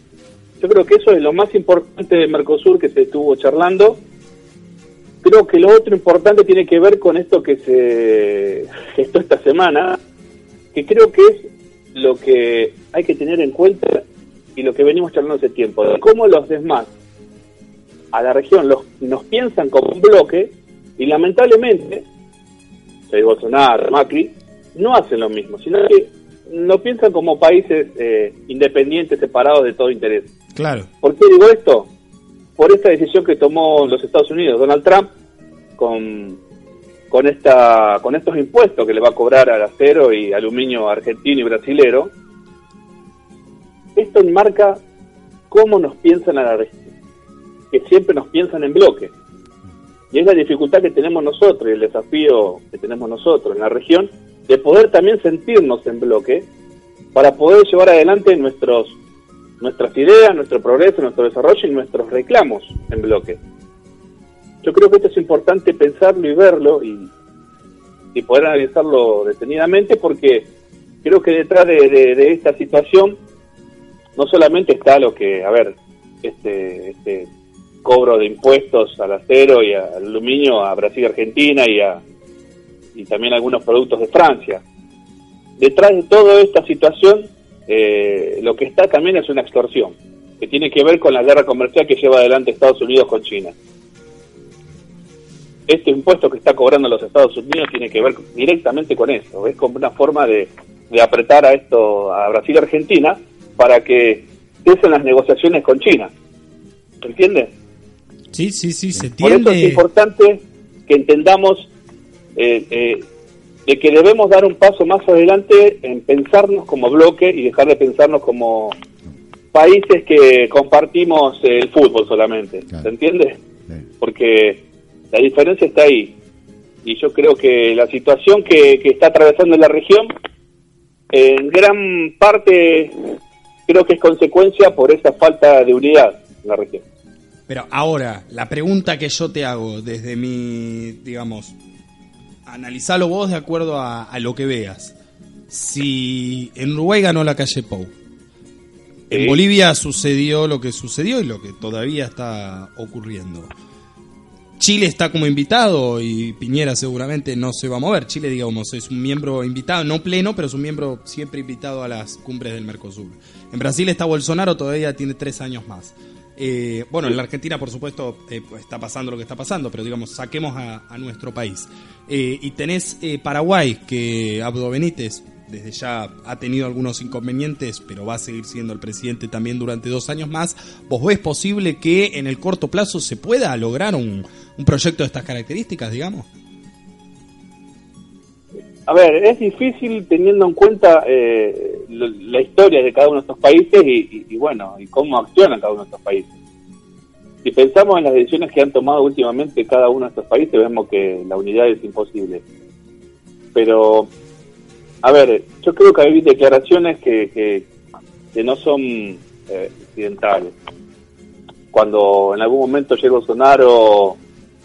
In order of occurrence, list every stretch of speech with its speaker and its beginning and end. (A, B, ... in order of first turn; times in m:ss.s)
0:00.6-0:04.0 A
0:05.2-0:10.0 A
0:10.7-0:14.0 A
0:14.6-0:16.9 A
0:18.1-0:22.0 A
0:23.1-0:30.3 A
0:30.5-0:30.9 B
0:31.0-0:31.9 A
0:32.6-0:35.1 A
0:35.8-0:36.4 A
0:37.1-0:42.1 A
0:44.0-0:44.8 A
0:45.5-0:46.9 A
0:47.7-0:49.1 A
0:50.1-0:56.4 A
0:57.1-0:59.0 A
0:59.6-1:03.4 A
1:04.6-1:07.1 A
1:08.1-1:10.5 A
1:11.0-1:13.2 A
1:14.2-1:17.3 A
1:17.8-1:22.0 A
1:23.0-1:24.6 A
1:25.6-1:33.5 A
1:35.7-1:46.1 A
1:47.0-1:47.5 A
1:48.3-1:49.8 B
1:49.2-1:51.7 A
1:52.4-1:53.0 A
1:53.7-1:58.7 A
1:59.5-2:03.4 A
2:04.0-2:06.1 A
2:06.8-2:10.1 A
2:11.1-2:12.9 A
2:13.7-2:16.8 A
2:17.5-2:21.5 B
2:22.4-2:24.9 B
2:25.5-2:27.9 B
2:29.1-2:33.5 B
2:29.1-2:29.4 A
2:34.6-3:06.3 B
3:08.9-3:16.3 A
3:17.4-3:22.4 A
3:23.5-3:24.1 A
3:25.0-3:27.7 A
3:28.3-3:30.5 A
3:31.7-3:34.2 A